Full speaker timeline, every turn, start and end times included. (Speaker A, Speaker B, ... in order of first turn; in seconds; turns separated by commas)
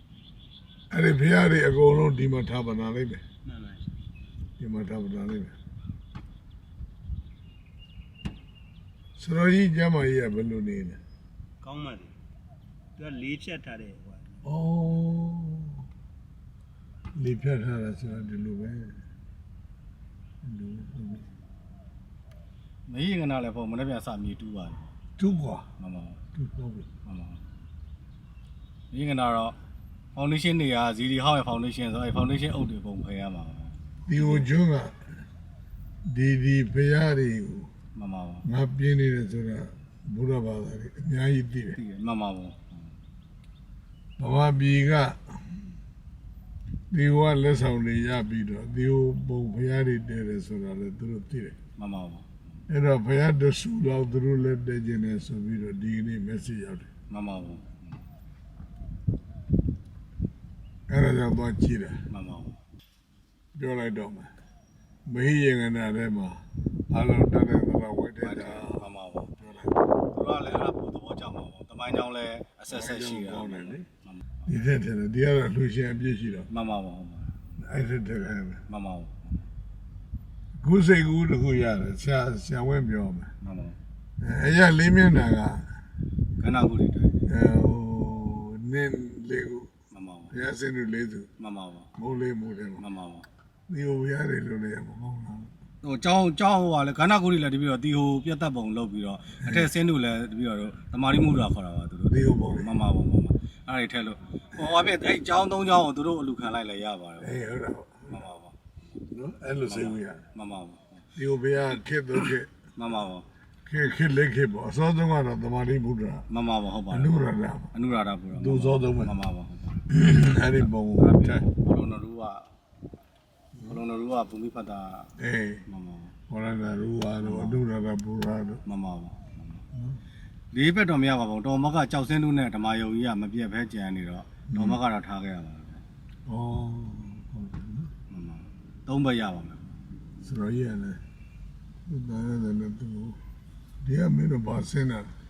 Speaker A: 0.9-3.2, Speaker B: 3.5-4.0, Speaker A: 4.6-5.5, Speaker A: 9.2-11.0, Speaker B: 11.6-12.1, Speaker B: 13.0-14.5, Speaker A: 14.4-15.8, Speaker A: 17.1-18.9, Speaker A: 20.4-21.3, Speaker C: 22.9-24.9, Speaker A: 25.2-25.7, Speaker C: 25.8-26.2, Speaker A: 26.3-26.9, Speaker C: 27.0-27.4, Speaker C: 28.9-29.6, Speaker C: 30.1-34.5, Speaker A: 34.1-35.0, Speaker A: 36.1-37.7, Speaker C: 38.0-38.5, Speaker A: 38.5-41.8, Speaker C: 41.8-42.9, Speaker A: 44.2-45.6, Speaker A: 46.9-51.6, Speaker C: 51.8-52.6, Speaker A: 52.7-56.9, Speaker C: 57.1-58.0, Speaker A: 60.9-62.0, Speaker C: 62.1-62.6, Speaker A: 63.6-64.3, Speaker A: 65.1-69.8, Speaker C: 68.2-74.3, Speaker A: 72.7-73.9, Speaker A: 74.5-76.5, Speaker C: 76.5-77.4, Speaker A: 77.6-78.6, Speaker C: 78.7-79.5, Speaker A: 80.6-83.3, Speaker C: 83.4-83.8, Speaker A: 84.2-85.7, Speaker C: 86.4-87.2, Speaker A: 87.3-89.7, Speaker C: 89.9-90.3, Speaker A: 90.3-91.3, Speaker C: 91.4-91.9, Speaker A: 92.0-92.8, Speaker C: 92.8-93.3, Speaker A: 93.7-95.5, Speaker C: 95.8-107.5, Speaker A: 99.4-99.7, Speaker A: 102.1-102.8, Speaker A: 104.6-104.9, Speaker A: 107.2-108.1, Speaker C: 108.1-108.5, Speaker A: 109.1-110.2, Speaker C: 109.6-111.1, Speaker A: 111.2-112.5, Speaker C: 112.8-113.3, Speaker A: 113.7-116.3, Speaker C: 116.3-117.2, Speaker A: 116.9-117.7, Speaker C: 117.7-122.5, Speaker A: 118.3-119.1, Speaker A: 119.9-121.5, Speaker C: 123.7-125.1, Speaker A: 125.2-125.6, Speaker C: 125.7-126.1, Speaker A: 126.3-128.6, Speaker C: 127.2-127.7, Speaker C: 128.7-129.6, Speaker C: 130.5-135.8, Speaker A: 134.5-134.8, Speaker A: 136.3-137.9, Speaker C: 138.1-139.7, Speaker A: 140.2-141.0, Speaker A: 141.9-143.2, Speaker A: 143.8-145.1